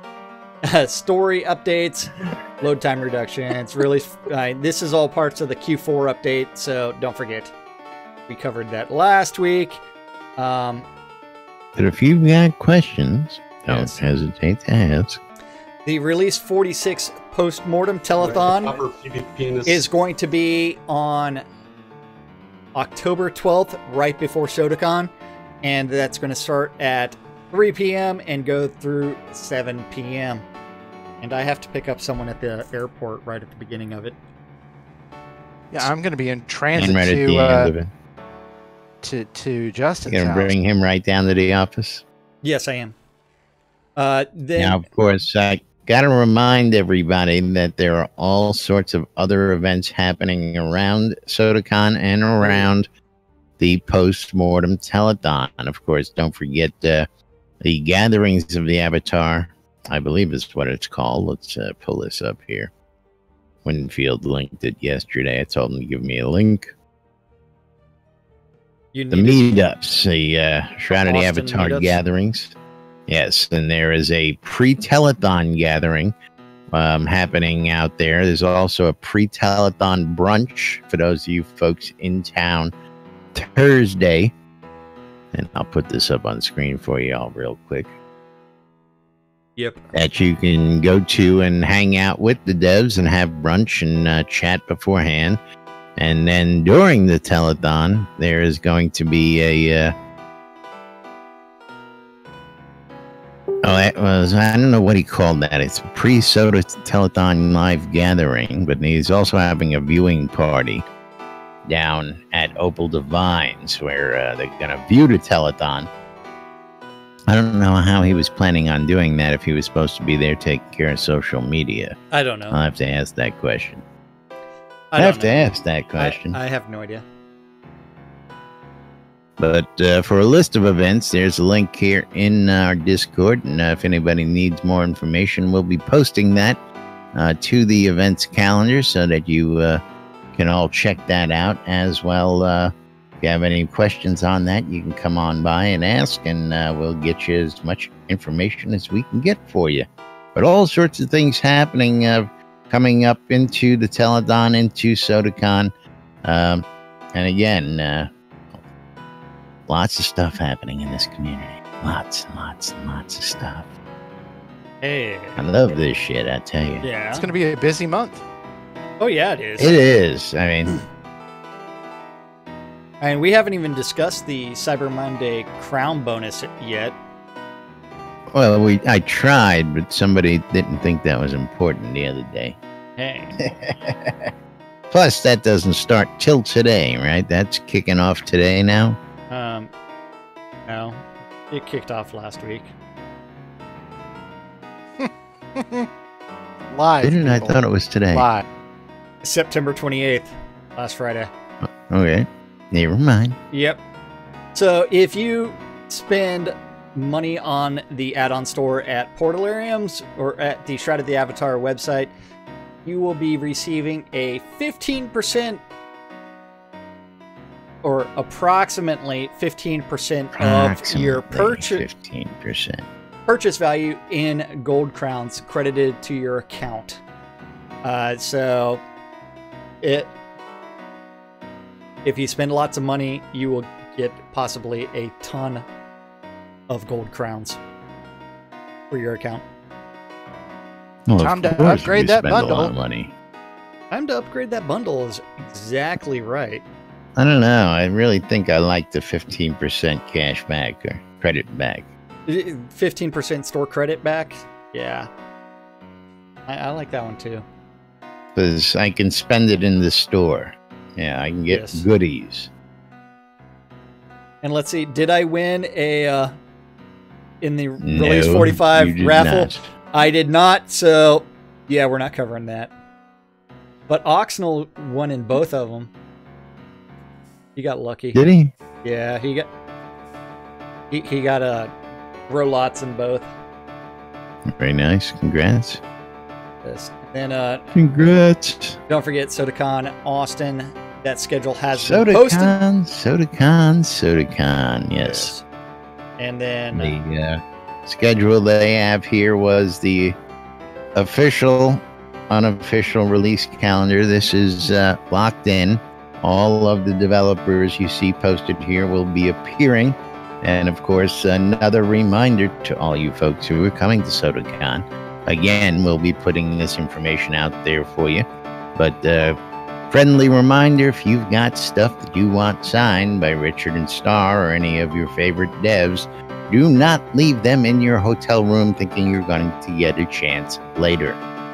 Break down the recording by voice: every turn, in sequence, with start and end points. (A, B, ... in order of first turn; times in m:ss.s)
0:00.6-0:07.5 A
0:08.3-0:09.8 A
0:10.4-0:10.8 A
0:11.7-0:15.2 B
0:13.6-0:14.0 A
0:15.8-0:18.9 A
0:19.6-0:21.4 A
0:22.7-0:25.1 A
0:25.6-0:30.4 A
0:31.2-0:34.2 A
0:35.7-0:37.7 C
0:36.8-0:37.9 B
0:39.0-0:40.5 C
0:40.1-0:42.0 B
0:42.4-0:42.9 A
0:44.0-0:44.8 A
0:44.6-0:52.9 B
0:52.4-0:52.7 A
0:53.6-0:57.1 B
0:57.6-1:02.7 B
1:03.6-1:06.7 B
1:08.9-1:09.5 A
1:09.1-1:12.6 B
1:11.0-1:12.0 A
1:13.1-1:16.1 B
1:16.7-1:22.7 B
1:23.3-1:24.3 B
1:25.3-1:27.9 B
1:29.6-1:29.9 A
1:29.9-1:35.4 B
1:36.0-1:39.9 B
1:43.6-1:50.8 B
1:51.6-1:55.9 B
1:57.3-2:02.0 B
2:02.1-2:02.6 A
2:02.5-2:03.8 B
2:04.9-2:07.0 A
2:05.0-2:06.4 B
2:09.4-2:16.6 B
2:17.1-2:19.8 B
2:20.3-2:35.7 B
2:36.2-2:38.6 B
2:39.7-2:43.7 B
2:44.8-2:45.5 A
2:45.4-2:46.8 B
2:46.8-2:47.2 A
2:47.1-2:48.2 C
2:49.0-2:49.8 A
2:49.6-2:50.8 B
2:53.0-2:57.0 A
2:58.3-3:02.6 B
3:03.0-3:03.4 A
3:03.4-3:04.3 B
3:04.9-3:09.0 B
3:09.3-3:09.7 A
3:10.7-3:12.7 A
3:15.0-3:15.9 C
3:16.7-3:17.6 C
3:17.0-3:18.3 B
3:18.1-3:18.4 C
3:19.2-3:21.3 A
3:21.6-3:23.4 B
3:23.5-3:23.8 A
3:24.5-3:32.1 A
3:32.8-3:35.6 A
3:37.8-3:41.8 A
3:40.4-3:42.8 B
3:43.3-3:47.0 A
3:47.8-3:48.8 A
3:49.8-3:50.1 A
3:52.0-3:55.6 A
3:56.7-3:57.6 A
3:58.9-3:59.4 A
4:01.1-4:03.1 B
4:01.2-4:02.7 C
4:03.9-4:06.6 A
4:07.2-4:11.9 B
4:12.3-4:15.1 A
4:16.4-4:17.4 A
4:18.3-4:22.5 B
4:21.5-4:21.8 A
4:24.4-4:26.4 A
4:27.4-4:32.7 A
4:27.8-4:29.7 B
4:33.9-4:35.9 A
4:37.5-4:38.2 A
4:38.1-4:38.5 B
4:38.8-4:39.5 A
4:40.9-4:41.7 A
4:42.3-4:43.3 A
4:44.5-4:45.8 B
4:46.6-4:47.7 A
4:47.7-4:48.8 B
4:48.9-4:52.5 A
4:51.7-4:55.3 B
4:55.0-4:55.4 A
4:56.2-4:57.0 A
4:56.7-5:00.2 B
5:00.9-5:18.2 B
5:18.8-5:19.4 B
5:19.9-5:31.2 B